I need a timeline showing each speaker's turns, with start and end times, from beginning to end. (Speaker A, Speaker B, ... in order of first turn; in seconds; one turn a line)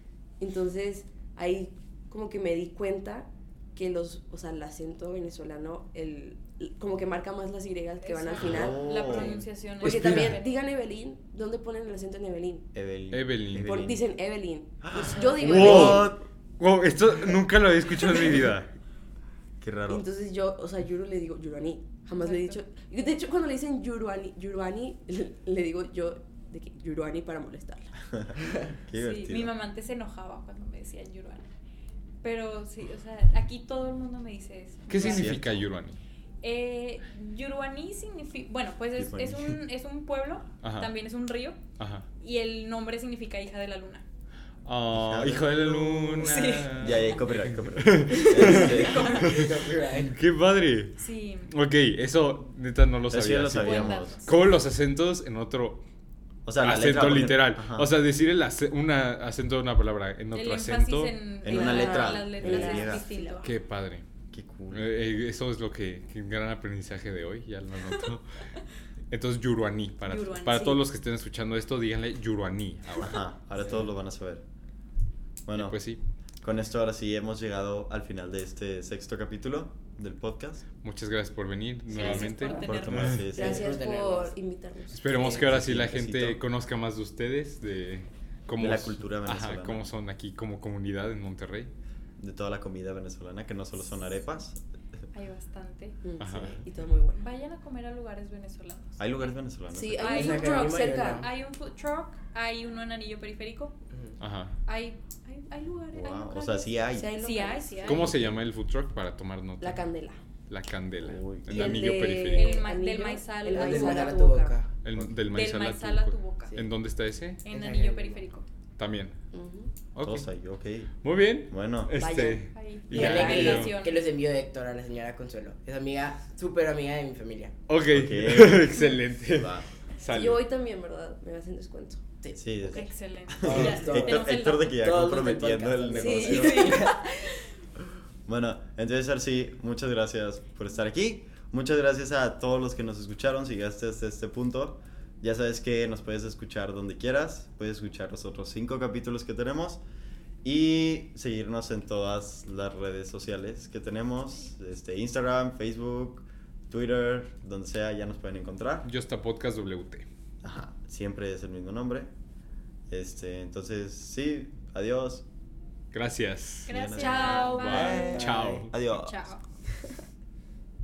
Speaker A: 0.4-12.7
Speaker B: 8.0-10.5
Speaker C: 8.4-9.4
Speaker D: 9.8-10.4
Speaker C: 12.7-14.0
Speaker D: 13.1-13.9
Speaker A: 13.6-16.1
Speaker C: 14.8-16.2
Speaker B: 15.0-15.7
Speaker D: 15.3-18.7
Speaker C: 19.6-20.0
Speaker A: 19.9-28.0
Speaker B: 22.1-22.6
Speaker C: 28.1-29.5
Speaker B: 29.0-31.5
Speaker B: 32.2-35.4
Speaker D: 34.9-36.0
Speaker C: 34.9-35.6
Speaker B: 36.4-41.6
Speaker C: 39.0-39.6
Speaker D: 40.6-40.9
Speaker D: 41.8-42.1
Speaker B: 42.2-44.0
Speaker D: 44.6-55.8
Speaker C: 44.9-45.7
Speaker E: 46.2-46.5
Speaker B: 46.2-47.0
Speaker C: 46.7-49.2
Speaker B: 48.2-49.5
Speaker A: 48.3-49.2
Speaker E: 49.2-50.2
Speaker B: 51.0-51.5
Speaker C: 53.1-54.1
Speaker B: 53.5-54.3
Speaker C: 56.5-57.9
Speaker D: 56.6-61.1
Speaker B: 60.3-63.5
Speaker C: 61.4-63.0
Speaker A: 61.5-63.5
Speaker D: 63.4-64.0
Speaker C: 64.3-64.9
Speaker D: 64.7-68.2
Speaker D: 69.1-73.2
Speaker B: 70.0-70.8
Speaker C: 73.0-74.4
Speaker C: 75.5-75.8
Speaker D: 75.5-76.0
Speaker C: 76.4-80.7
Speaker D: 80.8-83.3
Speaker B: 81.9-83.2
Speaker A: 82.0-82.6
Speaker C: 82.0-83.7
Speaker E: 83.3-84.3
Speaker A: 83.3-85.1
Speaker D: 84.9-91.7
Speaker C: 85.1-86.4
Speaker C: 88.6-89.9
Speaker C: 92.2-94.6
Speaker B: 95.1-96.0
Speaker A: 96.0-97.2
Speaker D: 96.2-96.6
Speaker B: 97.1-99.3
Speaker C: 99.0-100.2
Speaker A: 99.7-101.2
Speaker B: 100.0-103.7
Speaker E: 100.1-101.3
Speaker D: 104.2-104.5
Speaker B: 104.7-108.0
Speaker C: 105.9-108.3
Speaker A: 106.9-108.0
Speaker D: 107.8-109.9
Speaker A: 109.6-110.2
Speaker D: 110.5-112.6
Speaker C: 111.0-111.6
Speaker A: 111.5-114.5
Speaker B: 111.5-114.1
Speaker E: 113.5-114.7
Speaker D: 114.8-117.4
Speaker B: 115.3-116.6
Speaker B: 117.4-118.5
Speaker E: 117.5-118.2
Speaker D: 118.8-119.2
Speaker A: 119.3-119.7
Speaker D: 119.9-120.3
Speaker C: 120.0-121.0
Speaker D: 121.0-123.7
Speaker C: 121.5-122.2
Speaker A: 122.0-123.6
Speaker B: 122.5-124.0
Speaker E: 122.9-127.5
Speaker D: 127.7-130.4
Speaker C: 127.9-129.6
Speaker A: 130.1-132.0
Speaker E: 132.2-132.9
Speaker C: 132.3-132.8
Speaker B: 132.6-134.8
Speaker C: 133.4-136.8
Speaker E: 133.4-137.0
Speaker A: 135.9-137.4
Speaker B: 136.3-136.8
Speaker C: 138.2-149.8
Speaker C: 150.4-158.9
Speaker D: 158.8-160.1
Speaker C: 160.4-162.1
Speaker C: 162.9-165.2
Speaker D: 165.9-168.7
Speaker B: 166.7-168.3
Speaker C: 166.7-168.0
Speaker E: 167.5-168.7
Speaker C: 168.7-169.2
Speaker B: 168.9-169.4